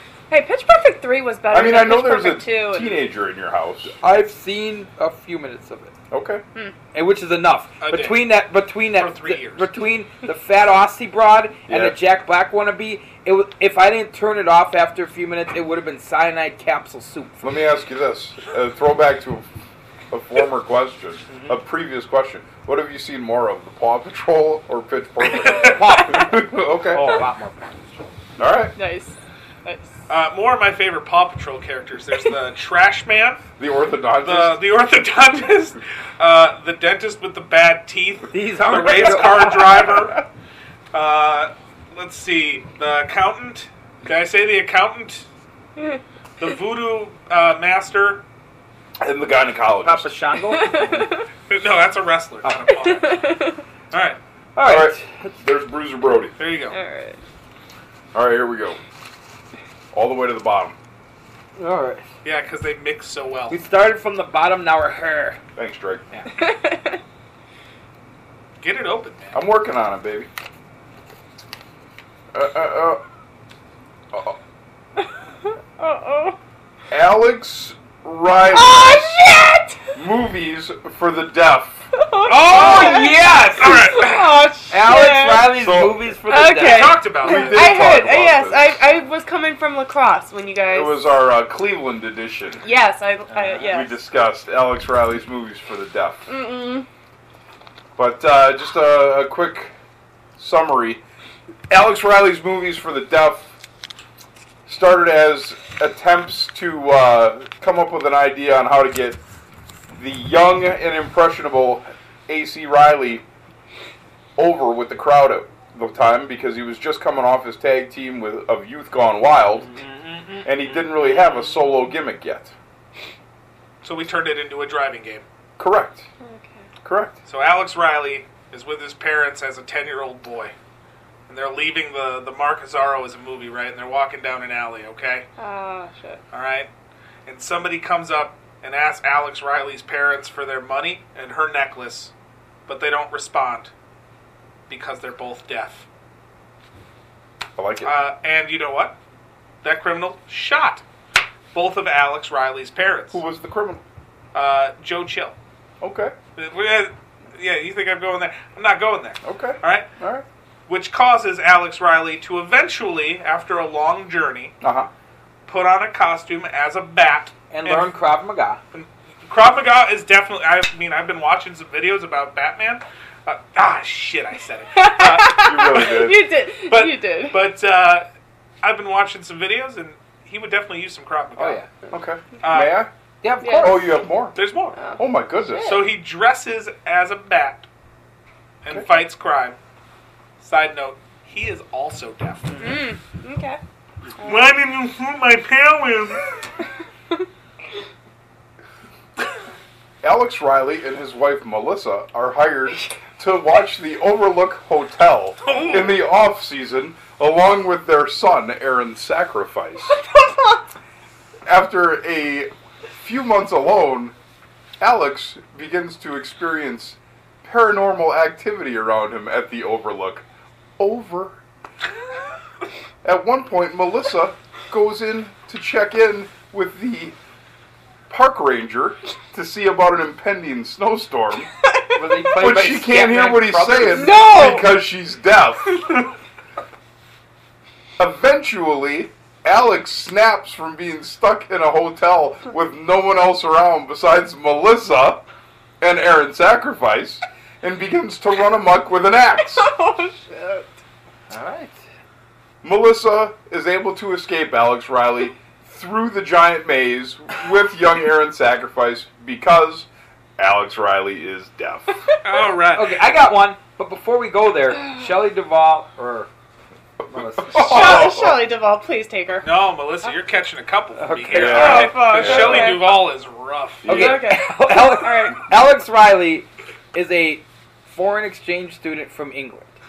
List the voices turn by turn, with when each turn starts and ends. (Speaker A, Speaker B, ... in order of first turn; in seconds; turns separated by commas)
Speaker A: 0.3-3.0, Speaker B: 1.5-4.0, Speaker C: 4.0-5.9, Speaker B: 6.1-6.4, Speaker C: 6.9-17.4, Speaker D: 7.8-8.3, Speaker D: 8.9-9.7, Speaker B: 11.7-12.0, Speaker B: 17.4-19.4, Speaker B: 20.1-27.3, Speaker C: 21.3-21.6, Speaker D: 25.4-25.8, Speaker C: 25.6-28.1, Speaker B: 28.4-28.8, Speaker A: 28.8-29.9, Speaker D: 30.1-33.5, Speaker B: 33.6-34.6, Speaker D: 34.2-40.2, Speaker C: 38.3-39.9, Speaker D: 40.9-45.3, Speaker D: 46.4-48.2, Speaker B: 49.0-50.2, Speaker C: 49.8-51.1, Speaker A: 50.6-51.2, Speaker D: 51.5-53.2, Speaker A: 52.7-53.6, Speaker D: 53.9-54.2, Speaker C: 54.5-55.4, Speaker B: 54.6-56.4, Speaker D: 56.4-56.8, Speaker A: 56.7-57.2, Speaker B: 58.1-58.8, Speaker B: 59.9-60.8, Speaker C: 61.6-62.0, Speaker D: 62.2-63.6, Speaker C: 63.5-65.4, Speaker B: 65.6-66.1, Speaker A: 66.3-67.0, Speaker D: 68.6-69.3, Speaker B: 69.3-70.3, Speaker B: 72.3-73.0, Speaker A: 75.4-76.4, Speaker B: 76.9-79.2, Speaker A: 78.5-79.9, Speaker B: 80.0-81.9, Speaker A: 82.0-85.5, Speaker C: 82.3-84.0, Speaker D: 82.5-84.5, Speaker C: 84.7-87.0, Speaker B: 85.5-86.1, Speaker A: 86.3-91.1, Speaker D: 86.6-87.8, Speaker B: 87.2-88.8, Speaker B: 90.7-92.7, Speaker A: 92.6-94.0, Speaker B: 93.6-96.3, Speaker A: 96.3-96.9, Speaker B: 98.0-99.7, Speaker B: 100.4-101.0, Speaker B: 101.7-103.6, Speaker B: 104.7-109.2, Speaker B: 110.0-113.2, Speaker B: 114.4-119.7, Speaker C: 119.7-120.5, Speaker B: 120.4-122.5, Speaker D: 123.8-125.2, Speaker B: 125.6-126.1, Speaker A: 126.2-126.7, Speaker B: 126.8-127.2, Speaker D: 127.3-130.5, Speaker D: 131.3-135.3, Speaker A: 135.4-136.2, Speaker D: 136.3-136.7, Speaker D: 137.3-142.1, Speaker D: 142.7-143.7, Speaker D: 144.7-145.9, Speaker B: 147.6-147.9, Speaker D: 147.8-149.0, Speaker D: 149.6-150.8, Speaker D: 151.5-153.2, Speaker B: 153.1-153.8, Speaker D: 154.3-155.4, Speaker B: 155.8-156.1, Speaker D: 156.4-159.9, Speaker B: 159.2-160.3, Speaker D: 160.7-164.5, Speaker B: 164.6-164.9, Speaker D: 165.5-167.9, Speaker C: 167.5-168.6, Speaker D: 168.7-175.9, Speaker A: 174.7-177.4, Speaker B: 175.3-176.3, Speaker D: 176.7-178.1, Speaker D: 178.6-181.6, Speaker C: 181.4-181.7, Speaker B: 181.9-182.9, Speaker D: 182.4-182.8, Speaker C: 183.2-183.9, Speaker A: 183.4-183.9, Speaker B: 183.6-184.4, Speaker D: 184.3-184.8, Speaker A: 184.8-185.9, Speaker B: 185.0-185.9, Speaker D: 185.7-187.7, Speaker D: 188.6-189.6, Speaker D: 190.4-192.8, Speaker A: 192.6-193.6, Speaker A: 194.2-194.6, Speaker D: 194.2-196.2, Speaker B: 200.0-210.0, Speaker D: 205.4-206.0, Speaker A: 209.9-210.8, Speaker B: 211.5-214.2, Speaker B: 214.8-220.3, Speaker B: 220.8-221.4, Speaker B: 223.0-227.2, Speaker B: 228.1-231.5, Speaker A: 231.7-232.0, Speaker C: 231.9-234.2, Speaker B: 232.4-235.9, Speaker A: 233.9-234.7, Speaker B: 238.0-245.3, Speaker B: 245.8-249.7, Speaker A: 249.4-250.8, Speaker C: 251.3-251.8, Speaker B: 252.6-262.0, Speaker D: 262.2-262.9, Speaker C: 262.7-266.3, Speaker B: 267.0-268.5, Speaker C: 267.1-268.1, Speaker A: 267.6-269.5, Speaker D: 269.4-273.9, Speaker C: 270.9-272.0, Speaker B: 271.3-272.8, Speaker A: 271.5-273.0, Speaker B: 273.8-274.4, Speaker C: 273.9-279.8, Speaker A: 273.9-275.5